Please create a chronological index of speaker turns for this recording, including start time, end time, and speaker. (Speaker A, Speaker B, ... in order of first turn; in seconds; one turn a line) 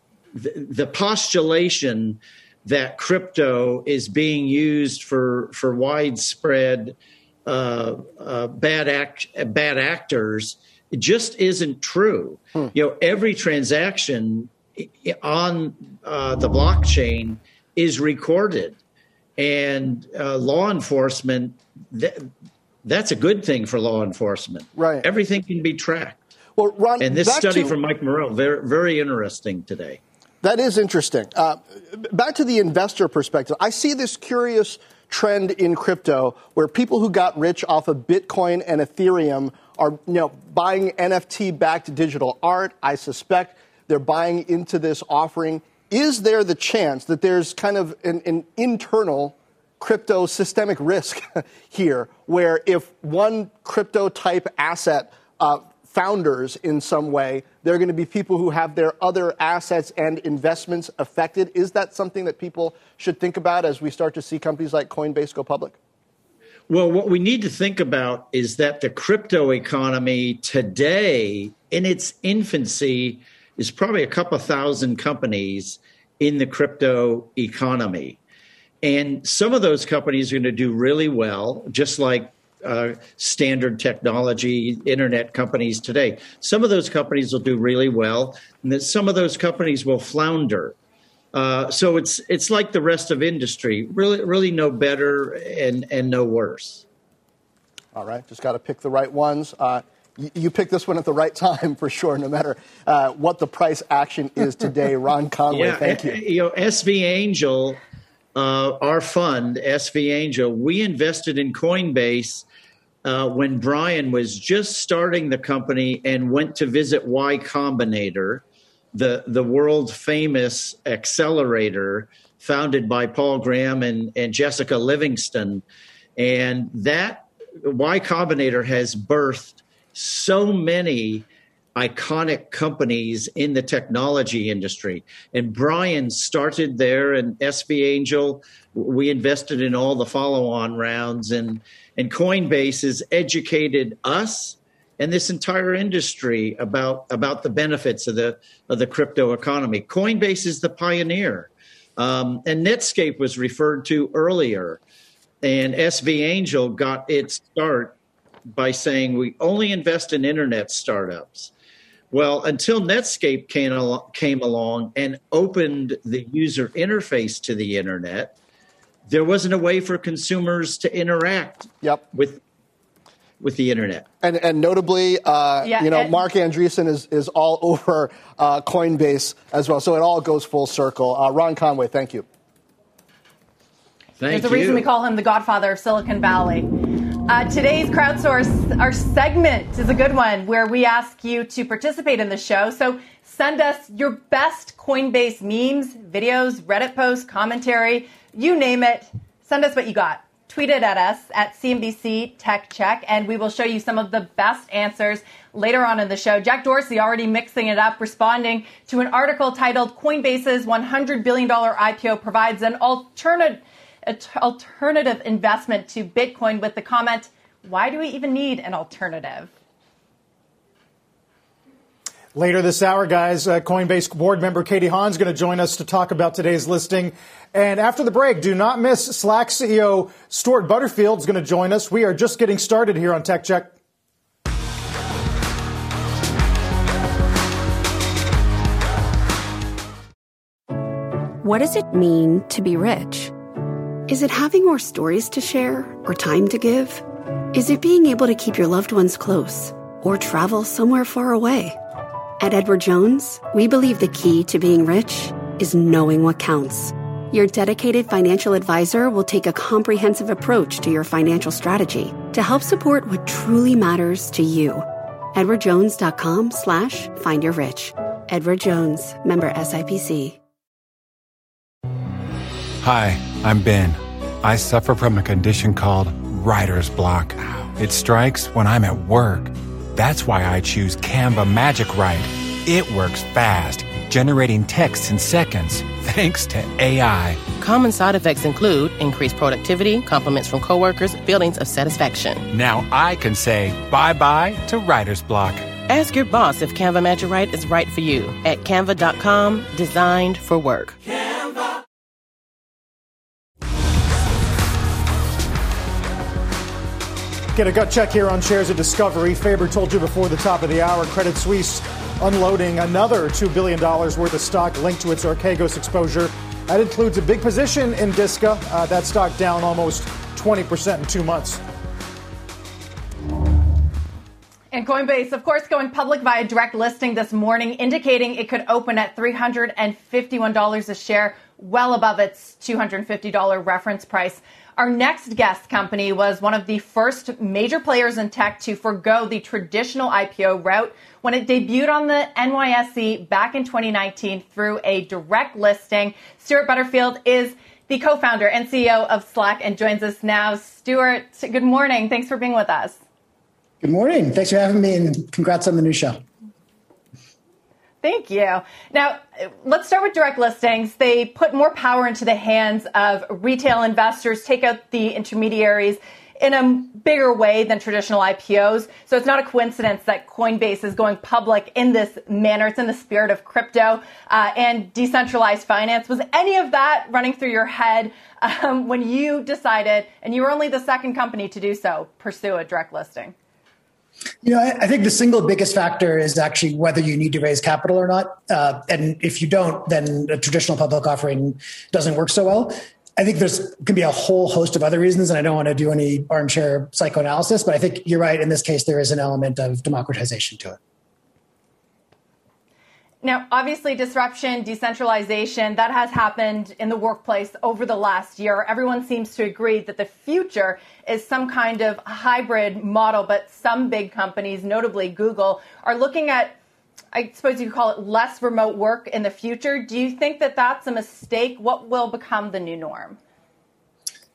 Speaker A: 0.3-18.8
Speaker A: 19.4-22.3
Speaker A: 22.8-26.2
Speaker B: 24.8-25.0
Speaker B: 26.6-27.7
Speaker A: 27.0-30.0
Speaker B: 30.4-65.8
Speaker A: 66.7-78.2
Speaker A: 78.8-90.8
Speaker A: 91.3-96.8
Speaker B: 97.9-106.2
Speaker A: 105.5-107.8
Speaker A: 108.3-112.5
Speaker A: 113.0-125.6
Speaker A: 126.2-154.8
Speaker A: 155.4-158.0
Speaker A: 158.5-161.5
Speaker A: 162.1-168.3
Speaker A: 169.1-172.4
Speaker A: 173.4-174.1
Speaker B: 174.2-182.2
Speaker C: 175.6-176.1
Speaker A: 184.2-184.8
Speaker C: 184.3-186.7
Speaker C: 187.3-219.5
Speaker D: 222.3-233.7
Speaker E: 241.4-243.3
Speaker E: 244.1-251.8
Speaker E: 252.4-270.4
Speaker F: 272.8-287.4
Speaker G: 287.6-292.5
Speaker F: 292.5-295.7
Speaker G: 295.9-301.0
Speaker D: 307.6-321.6
Speaker C: 324.7-353.0
Speaker H: 353.8-356.2
Speaker C: 358.0-383.3
Speaker H: 384.4-400.8
Speaker C: 403.2-416.6
Speaker C: 417.1-423.2